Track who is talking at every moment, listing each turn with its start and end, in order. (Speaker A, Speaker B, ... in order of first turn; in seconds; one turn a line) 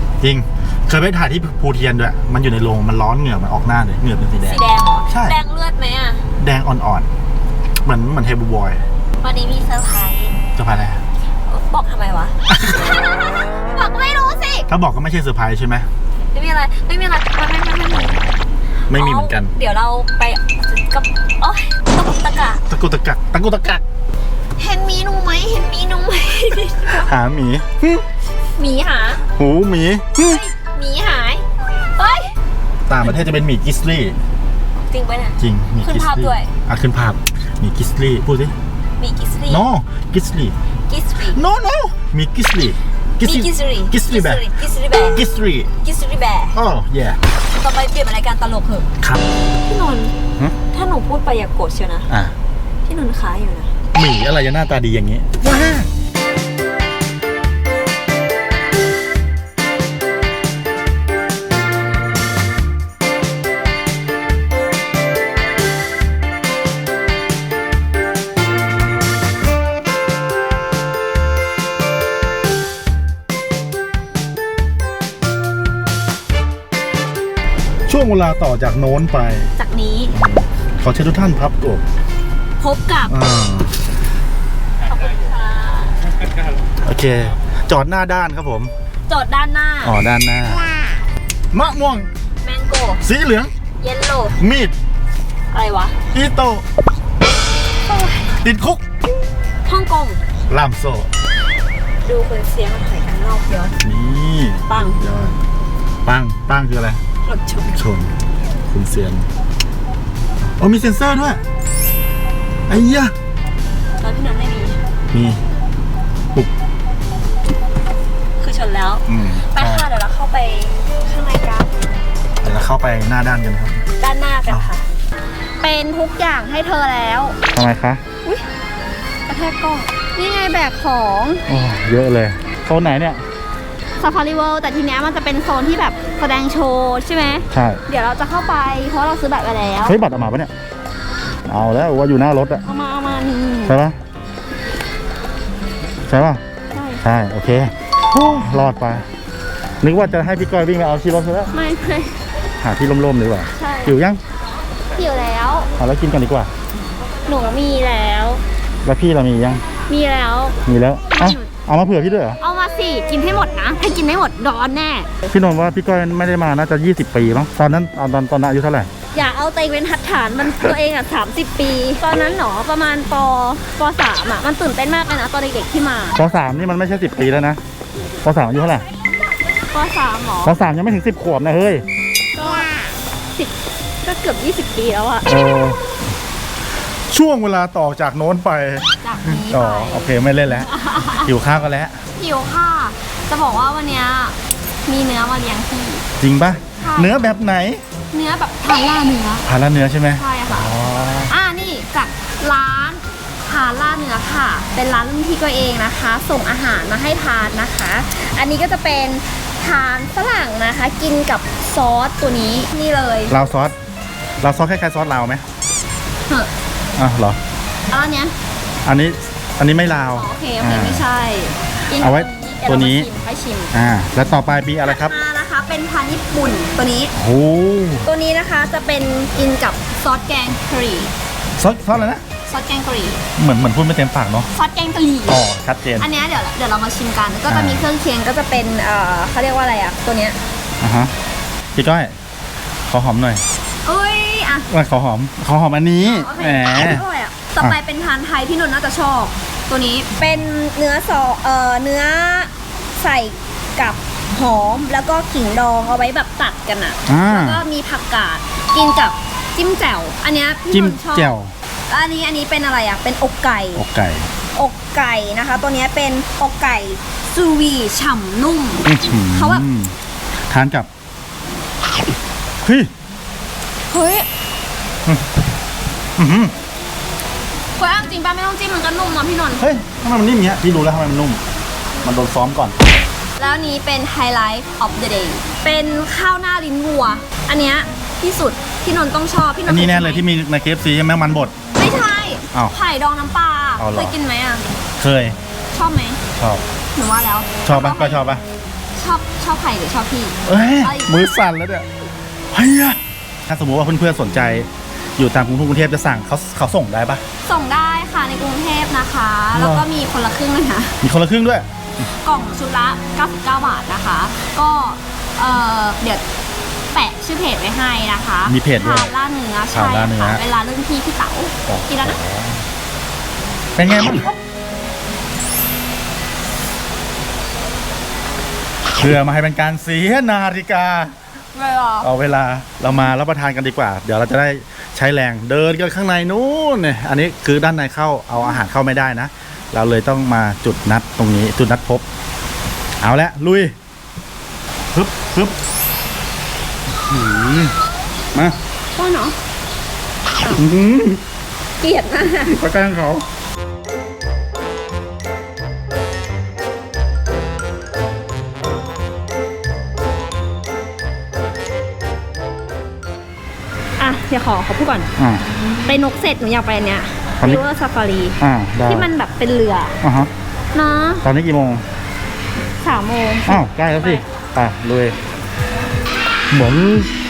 Speaker A: 0.2-5.4
Speaker B: 4.4-6.2
Speaker A: 6.4-7.1
Speaker A: 7.8-8.8
Speaker B: 9.2-10.4
Speaker A: 10.6-11.0
Speaker B: 11.5-14.7
Speaker A: 12.5-12.9
Speaker A: 14.7-15.9
Speaker B: 16.3-18.4
Speaker B: 18.9-22.6
Speaker A: 18.9-19.5
Speaker A: 22.7-23.8
Speaker B: 24.6-27.1
Speaker A: 26.8-28.0
Speaker B: 28.6-29.2
Speaker A: 29.3-30.4
Speaker B: 30.2-32.3
Speaker A: 32.9-34.2
Speaker B: 34.8-36.5
Speaker A: 35.4-38.5
Speaker B: 39.0-39.6
Speaker A: 39.5-40.6
Speaker B: 40.9-41.4
Speaker A: 41.3-44.5
Speaker B: 43.2-45.2
Speaker A: 45.1-45.7
Speaker B: 45.8-46.5
Speaker A: 46.5-47.2
Speaker B: 47.5-48.9
Speaker B: 49.6-50.1
Speaker B: 50.7-52.1
Speaker A: 52.1-52.3
Speaker B: 52.8-53.7
Speaker A: 53.9-55.9
Speaker A: 77.9-79.5
Speaker B: 79.5-80.2
Speaker A: 80.1-81.8
Speaker B: 82.6-83.1
Speaker A: 83.1-83.8
Speaker B: 84.8-86.0
Speaker A: 86.8-88.7
Speaker B: 89.1-90.0
Speaker A: 89.8-90.7
Speaker A: 91.5-92.1
Speaker B: 92.4-93.0
Speaker A: 93.0-93.5
Speaker B: 93.8-94.4
Speaker A: 94.4-94.7
Speaker B: 95.5-96.0
Speaker A: 96.1-96.6
Speaker B: 97.9-98.3
Speaker A: 98.4-98.8
Speaker B: 99.6-100.2
Speaker A: 100.5-101.1
Speaker B: 102.0-103.8
Speaker A: 103.8-105.4
Speaker B: 104.7-105.0
Speaker A: 106.0-107.0
Speaker B: 107.2-107.8
Speaker A: 107.7-108.1
Speaker A: 108.7-109.3
Speaker A: 110.6-111.4
Speaker A: 112.7-113.1
Speaker B: 114.0-114.8
Speaker A: 115.1-115.4
Speaker B: 118.4-121.9
Speaker A: 119.1-119.9
Speaker A: 122.4-123.8
Speaker B: 124.0-124.8
Speaker B: 125.6-127.4
Speaker A: 127.5-128.0
Speaker B: 129.3-131.4
Speaker A: 131.5-133.2
Speaker B: 134.0-140.0
Speaker A: 137.5-137.8
Speaker A: 139.8-140.5
Speaker A: 141.4-142.6
Speaker B: 142.6-143.8
Speaker A: 143.7-144.0
Speaker A: 146.1-146.4
Speaker B: 146.7-147.0
Speaker A: 147.0-149.1
Speaker A: 149.8-151.5
Speaker B: 151.5-152.2
Speaker A: 152.6-154.2
Speaker B: 153.5-154.0
Speaker B: 154.8-155.7
Speaker A: 155.8-156.5
Speaker B: 157.2-158.4
Speaker A: 158.8-159.6
Speaker B: 159.9-160.6
Speaker A: 160.6-162.4
Speaker B: 161.1-161.5
Speaker B: 162.4-165.1
Speaker A: 165.3-168.9
Speaker B: 169.1-176.2
Speaker A: 176.1-177.6
Speaker A: 178.2-178.8
Speaker B: 179.5-180.6
Speaker A: 180.4-181.8
Speaker B: 182.3-182.8
Speaker B: 183.3-185.3
Speaker A: 185.2-185.8
Speaker A: 187.1-192.0
Speaker B: 189.0-190.1
Speaker B: 190.7-191.3
Speaker B: 192.2-196.0
Speaker A: 196.2-197.8
Speaker B: 196.8-197.3
Speaker B: 198.1-199.5
Speaker A: 199.4-201.3
Speaker B: 200.2-200.7
Speaker B: 201.3-213.3
Speaker A: 213.3-213.7
Speaker A: 214.4-215.4
Speaker A: 217.0-217.4
Speaker B: 217.9-218.3
Speaker A: 218.8-221.1
Speaker B: 220.1-223.7
Speaker A: 221.9-223.1
Speaker A: 223.7-225.2
Speaker B: 224.8-227.1
Speaker A: 227.1-228.1
Speaker B: 228.0-231.1
Speaker A: 231.6-232.2
Speaker B: 232.4-233.2
Speaker A: 233.4-234.5
Speaker B: 234.5-235.4
Speaker A: 235.3-236.1
Speaker B: 236.0-240.4
Speaker A: 237.5-237.9
Speaker A: 240.8-241.1
Speaker A: 241.7-242.2
Speaker A: 242.9-243.4
Speaker B: 243.8-244.7
Speaker A: 244.7-247.0
Speaker B: 246.1-261.3
Speaker A: 257.1-257.6
Speaker A: 260.7-261.5
Speaker B: 261.9-263.8
Speaker A: 263.7-264.3
Speaker B: 264.5-269.6
Speaker A: 268.8-269.9
Speaker A: 270.5-270.9
Speaker A: 272.6-272.9
Speaker B: 273.9-274.3
Speaker A: 276.2-276.5
Speaker B: 277.8-279.6
Speaker A: 279.6-281.4
Speaker A: 282.0-282.8
Speaker B: 283.4-290.2
Speaker A: 289.7-291.5
Speaker B: 291.7-294.6
Speaker A: 293.8-294.1
Speaker A: 295.0-295.4
Speaker B: 295.7-296.2
Speaker A: 296.4-296.6
Speaker B: 296.9-298.2
Speaker A: 297.6-298.4
Speaker B: 298.9-301.1
Speaker A: 300.4-301.9
Speaker A: 302.5-307.2
Speaker B: 307.4-311.0
Speaker A: 309.5-309.9
Speaker A: 311.0-312.0
Speaker B: 312.2-316.2
Speaker B: 316.9-322.2
Speaker A: 318.4-319.1
Speaker A: 319.7-320.4
Speaker A: 321.6-322.6
Speaker A: 323.7-324.4
Speaker A: 329.0-331.1
Speaker B: 331.5-332.1
Speaker A: 332.0-342.0
Speaker A: 343.0-343.7
Speaker A: 344.9-345.6
Speaker A: 347.1-347.7
Speaker B: 348.9-349.3
Speaker A: 350.5-351.2
Speaker B: 351.8-352.6
Speaker A: 352.4-353.2
Speaker B: 364.0-365.1
Speaker A: 365.2-365.4
Speaker B: 365.8-370.0
Speaker A: 367.4-367.6
Speaker A: 368.4-369.1
Speaker A: 370.0-370.3
Speaker B: 370.7-371.2
Speaker A: 371.2-371.8
Speaker B: 372.8-374.2
Speaker A: 373.4-375.2
Speaker A: 376.5-377.1